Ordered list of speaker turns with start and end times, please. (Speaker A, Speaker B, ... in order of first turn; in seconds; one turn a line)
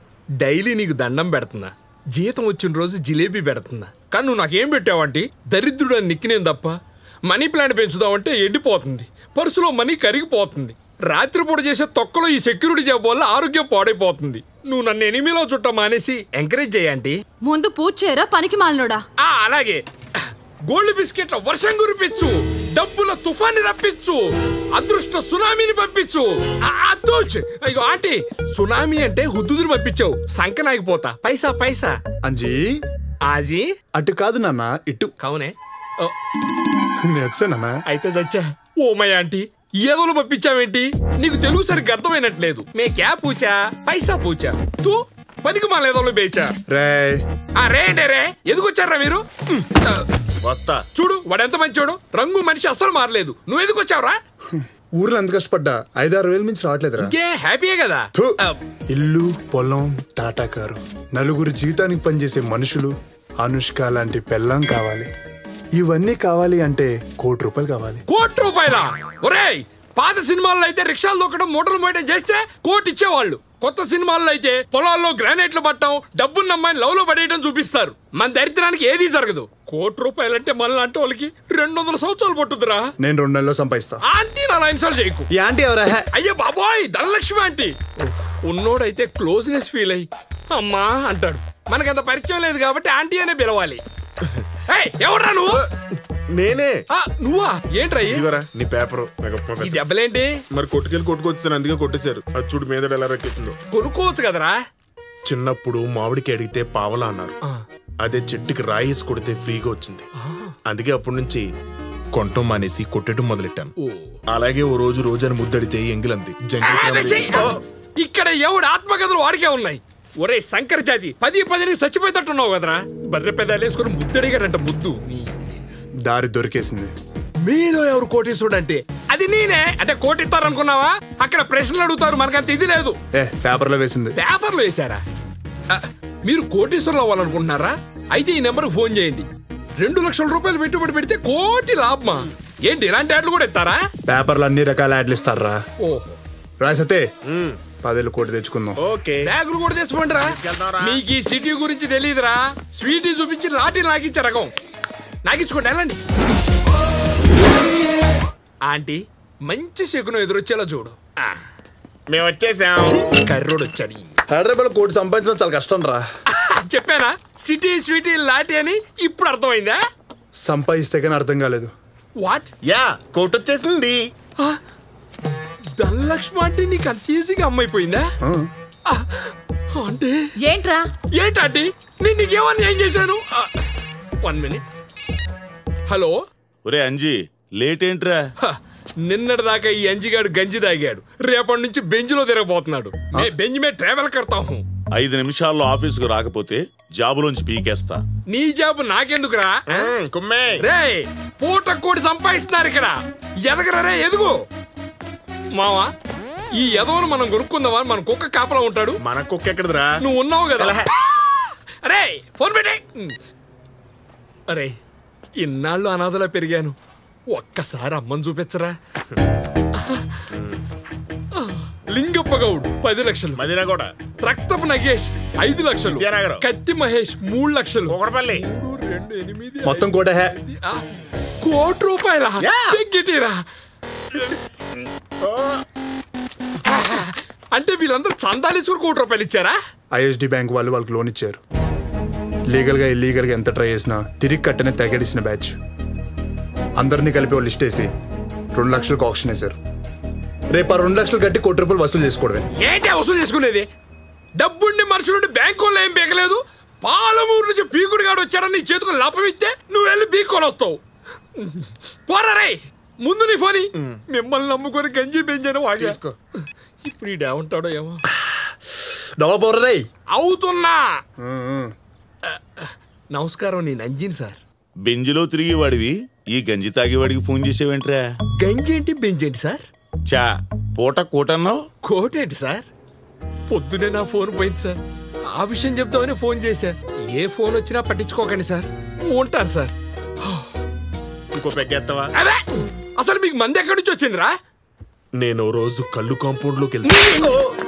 Speaker A: 0.4-17.2
Speaker B: 17.4-19.0
Speaker A: 19.2-32.0
Speaker C: 32.2-32.7
Speaker A: 33.2-33.7
Speaker C: 33.9-35.1
Speaker A: 35.2-36.1
Speaker C: 37.0-37.8
Speaker A: 37.9-46.5
Speaker C: 46.7-47.2
Speaker A: 47.6-50.0
Speaker D: 50.4-50.8
Speaker A: 50.9-54.2
Speaker C: 54.5-57.1
Speaker A: 57.0-58.6
Speaker C: 58.9-65.1
Speaker C: 65.7-68.0
Speaker A: 68.1-82.9
Speaker C: 83.0-84.0
Speaker A: 84.0-85.3
Speaker C: 85.3-86.1
Speaker A: 86.1-93.8
Speaker A: 94.7-95.7
Speaker D: 96.3-96.8
Speaker A: 96.9-98.2
Speaker D: 98.0-99.8
Speaker A: 99.6-100.3
Speaker D: 100.5-103.5
Speaker A: 103.7-104.6
Speaker D: 105.2-107.3
Speaker D: 108.0-110.1
Speaker A: 110.2-110.5
Speaker D: 110.7-111.4
Speaker D: 112.1-113.7
Speaker A: 113.8-114.2
Speaker D: 114.3-117.6
Speaker A: 116.6-125.6
Speaker C: 126.0-126.9
Speaker A: 127.4-133.0
Speaker C: 133.2-134.1
Speaker A: 134.2-135.0
Speaker A: 135.7-139.3
Speaker A: 139.8-143.8
Speaker C: 144.1-145.6
Speaker A: 145.8-146.2
Speaker C: 146.6-147.0
Speaker D: 147.3-147.6
Speaker C: 147.8-148.8
Speaker D: 148.8-149.3
Speaker A: 149.2-154.5
Speaker D: 150.2-151.0
Speaker A: 155.2-156.0
Speaker A: 158.6-161.4
Speaker D: 162.1-163.0
Speaker A: 162.8-164.2
Speaker C: 164.3-166.0
Speaker A: 166.3-169.8
Speaker C: 170.4-171.7
Speaker A: 172.2-172.5
Speaker D: 172.6-174.1
Speaker A: 175.8-178.1
Speaker C: 178.2-178.5
Speaker A: 178.9-180.3
Speaker B: 180.4-180.9
Speaker A: 181.0-183.7
Speaker A: 184.2-184.6
Speaker A: 185.9-186.2
Speaker E: 186.6-188.2
Speaker A: 188.4-194.6
Speaker E: 194.9-198.0
Speaker A: 198.3-199.9
Speaker D: 199.7-200.6
Speaker A: 200.6-204.4
Speaker A: 205.5-205.9
Speaker A: 206.5-209.0
Speaker D: 209.0-209.9
Speaker A: 210.0-213.2
Speaker D: 210.6-210.9
Speaker A: 214.5-214.8
Speaker A: 215.4-216.7
Speaker A: 217.3-218.7
Speaker A: 219.8-220.2
Speaker D: 220.3-220.6
Speaker A: 221.3-223.4
Speaker D: 223.4-223.9
Speaker A: 224.2-230.8
Speaker D: 225.8-226.4
Speaker D: 227.9-228.4
Speaker C: 229.6-230.3
Speaker A: 231.4-233.4
Speaker D: 232.4-232.8
Speaker D: 235.2-235.6
Speaker A: 236.6-239.6
Speaker C: 239.9-241.4
Speaker C: 242.5-245.6
Speaker C: 246.8-247.9
Speaker C: 248.5-249.6
Speaker C: 250.5-252.4
Speaker A: 252.6-253.7
Speaker A: 254.4-260.8
Speaker A: 261.4-266.0
Speaker D: 265.8-266.1
Speaker A: 266.8-268.0
Speaker C: 268.1-269.8
Speaker A: 270.1-270.9
Speaker C: 271.2-271.7
Speaker A: 272.2-274.4
Speaker E: 274.8-278.0
Speaker A: 278.4-279.6
Speaker E: 280.1-281.6
Speaker A: 281.8-282.6
Speaker A: 283.5-290.5
Speaker D: 291.3-292.1
Speaker A: 292.1-294.3
Speaker D: 295.2-297.4
Speaker A: 296.8-297.4